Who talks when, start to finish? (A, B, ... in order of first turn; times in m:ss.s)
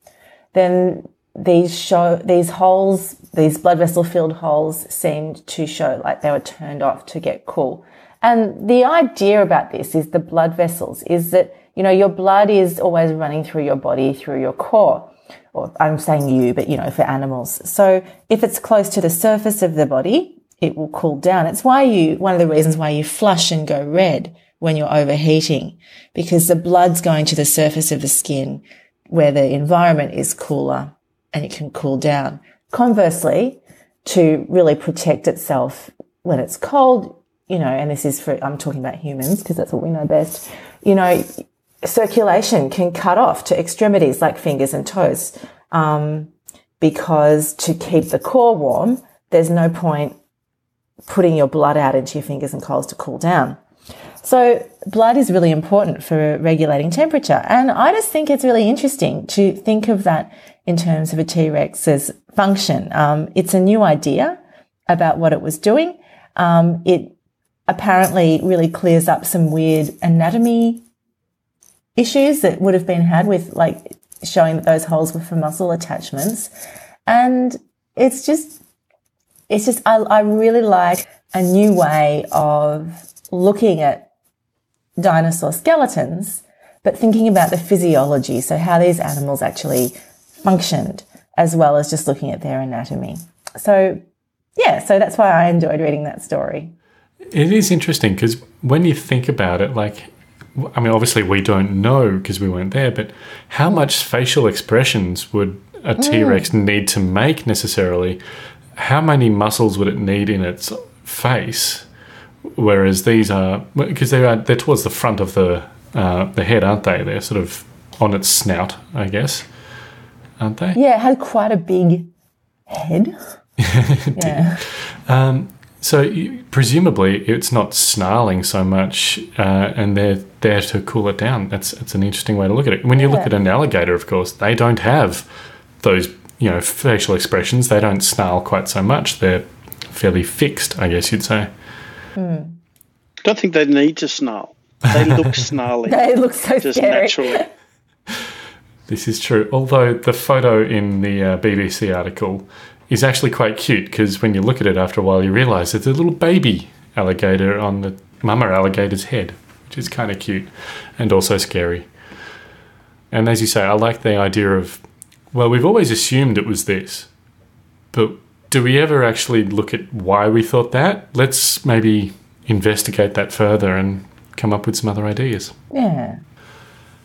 0:00.5-0:50.2 A
0:51.1-0:53.6 A
0:54.2-1:07.1 A
1:07.7-1:10.8 A
1:12.0-1:16.5 A
1:17.1-1:18.6 A
1:19.5-1:24.1 A
1:25.0-1:34.0 A
1:34.6-1:36.7 A
1:37.3-1:48.2 B
1:46.0-1:46.5 A
1:48.8-1:51.9 B
1:52.6-1:59.5 B
2:00.4-2:00.8 B
2:00.8-2:02.1 A
2:02.7-2:03.2 A
2:03.6-2:15.3 B
2:04.2-2:04.6 A
2:13.0-2:13.3 A
2:15.8-2:21.5 B
2:22.2-2:22.6 A
2:23.2-2:26.0 C
2:25.9-2:27.4 A
2:26.6-2:27.4 C
2:28.9-2:41.9 B
2:43.1-2:47.1 B
2:47.9-2:55.6 B
2:55.7-2:56.2 A